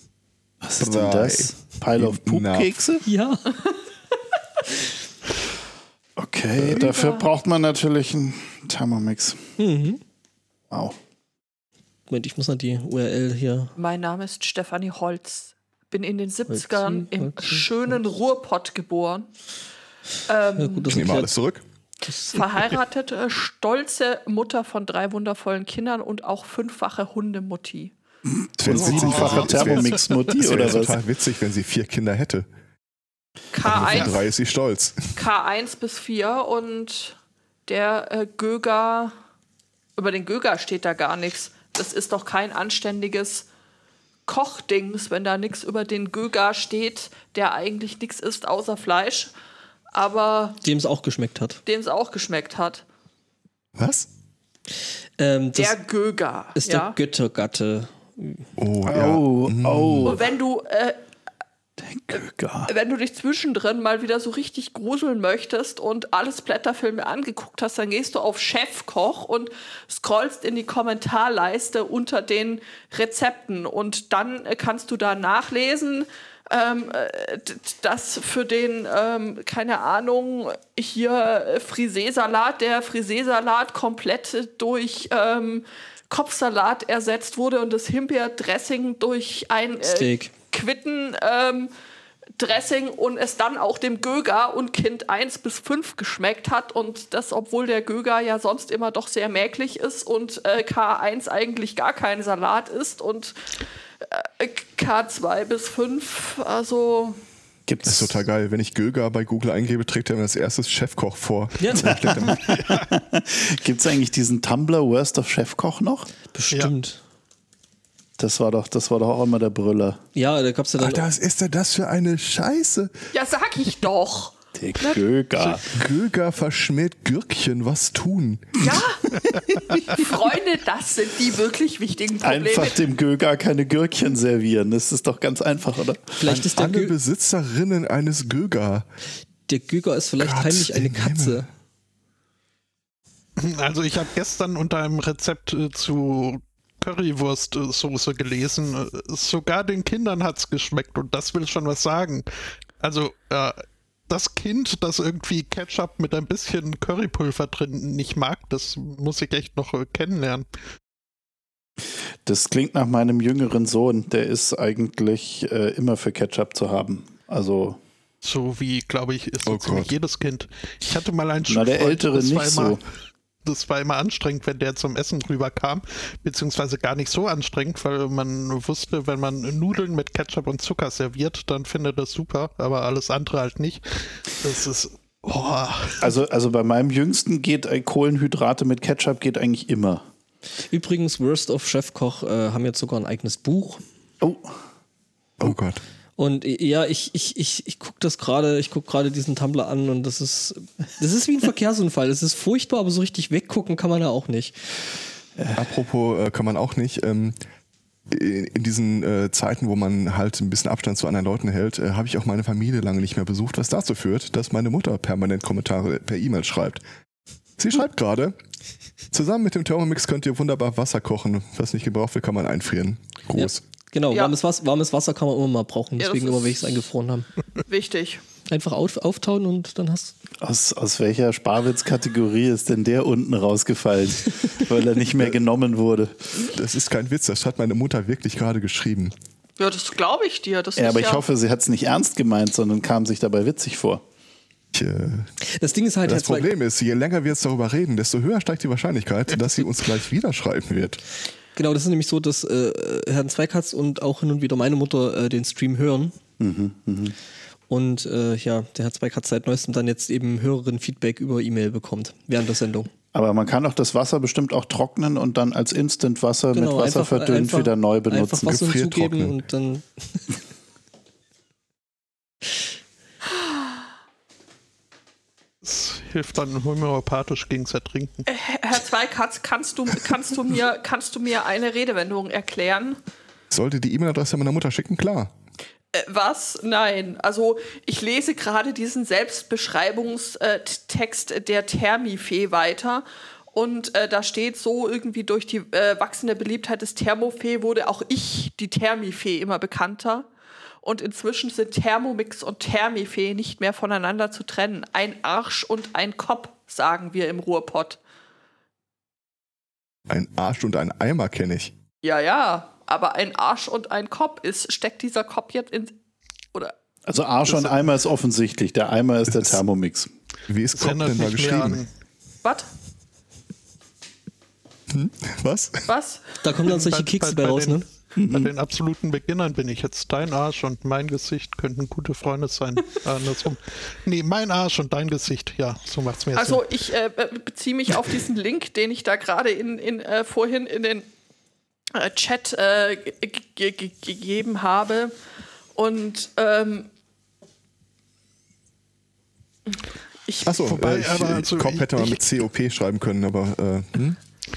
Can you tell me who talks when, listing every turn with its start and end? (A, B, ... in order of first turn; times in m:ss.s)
0:00.6-0:03.0 A
0:00.8-0:02.7 B
0:03.0-0:03.5 C
0:06.2-0:09.5 A
0:06.6-0:07.3 D
0:09.6-0:10.0 C
0:10.7-0:11.0 A
0:12.1-0:13.7 C
0:13.8-0:19.3 D
0:16.5-0:17.7 C
0:20.3-0:21.0 D
0:20.5-0:21.3 C
0:20.9-0:21.6 B
0:22.0-0:22.5 C
0:22.3-0:27.9 D
0:28.2-0:31.0 A
0:28.6-0:32.4 B
0:28.7-0:30.2 E
0:33.5-0:34.2 D
0:33.6-0:35.2 B
0:35.1-0:39.1 D
0:40.0-0:43.5 D
0:44.3-0:49.3 D
0:49.9-0:50.6 D
0:50.6-0:51.6 C
0:51.6-0:52.8 D
0:53.8-0:54.1 B
0:55.2-0:55.8 C
0:55.5-0:57.0 D
0:56.6-0:58.4 C
0:58.6-1:00.2 B
0:58.8-1:00.2 A
1:00.0-1:01.0 D
1:01.8-1:02.7 A
1:02.7-1:31.7 D
1:29.8-1:30.3 C
1:32.4-1:43.4 D
1:44.0-1:47.2 D
1:47.7-1:48.2 A
1:47.8-1:52.5 B
1:51.6-1:52.0 C
1:51.7-1:56.1 A
1:52.4-1:52.9 E
1:56.3-1:57.0 C
1:58.2-2:00.0 A
2:00.1-2:01.0 C
2:00.8-2:02.9 B
2:03.1-2:05.0 D
2:04.5-2:05.7 A
2:05.7-2:08.7 B
2:08.6-2:09.0 D
2:09.2-2:09.7 A
2:09.7-2:12.8 D
2:12.2-2:16.2 A
2:16.2-2:17.0 C
2:16.2-2:18.9 B
2:19.5-2:21.5 C
2:20.2-2:21.5 B
2:23.4-2:32.2 E
2:32.8-2:33.6 E
2:34.1-2:40.4 E
2:42.2-2:47.8 A
2:48.2-2:52.8 E
2:49.4-2:49.9 B
2:51.5-2:52.8 A
2:53.4-3:06.1 E
3:06.0-3:10.0 A
3:10.7-3:13.8 C
3:14.2-3:14.5 A
3:15.4-3:15.8 B
3:16.2-3:24.6 C
3:25.5-3:27.3 B
3:28.1-3:36.8 B
3:37.6-3:38.3 B
3:39.1-3:43.6 B
3:43.3-3:47.3 C
3:46.0-3:46.8 D
3:47.6-3:48.2 D
3:48.4-3:50.1 C
3:50.4-3:56.4 A
3:56.5-3:59.1 B
3:59.6-4:01.2 D
4:00.8-4:04.0 A
4:04.7-4:05.3 B
4:05.4-4:06.5 C
4:06.0-4:11.0 B
4:11.6-4:16.1 C
4:16.4-4:17.1 A
4:17.7-4:22.9 C
4:23.1-4:28.6 A
4:26.5-4:30.3 C
4:28.4-4:29.4 B
4:35.6-4:38.2 E
4:38.3-4:43.0 D
4:43.5-4:45.3 B
4:45.9-5:00.3 D
5:00.8-5:08.0 D
5:10.1-5:11.7 B
5:12.0-5:15.9 D
5:17.0-5:20.1 A
5:17.5-5:17.9 E
5:19.3-5:19.6 B
5:20.5-5:21.8 B
5:20.7-5:21.9 E
5:22.4-5:22.7 D
5:24.9-5:25.9 B
5:25.9-5:26.3 D
5:26.4-5:27.8 C
5:26.6-5:36.7 E
5:28.2-5:28.5 A
5:36.4-5:41.1 D
5:41.9-5:45.1 D
5:45.7-5:46.9 D
5:49.7-5:50.5 D
5:50.4-5:54.2 B
5:50.6-5:52.3 E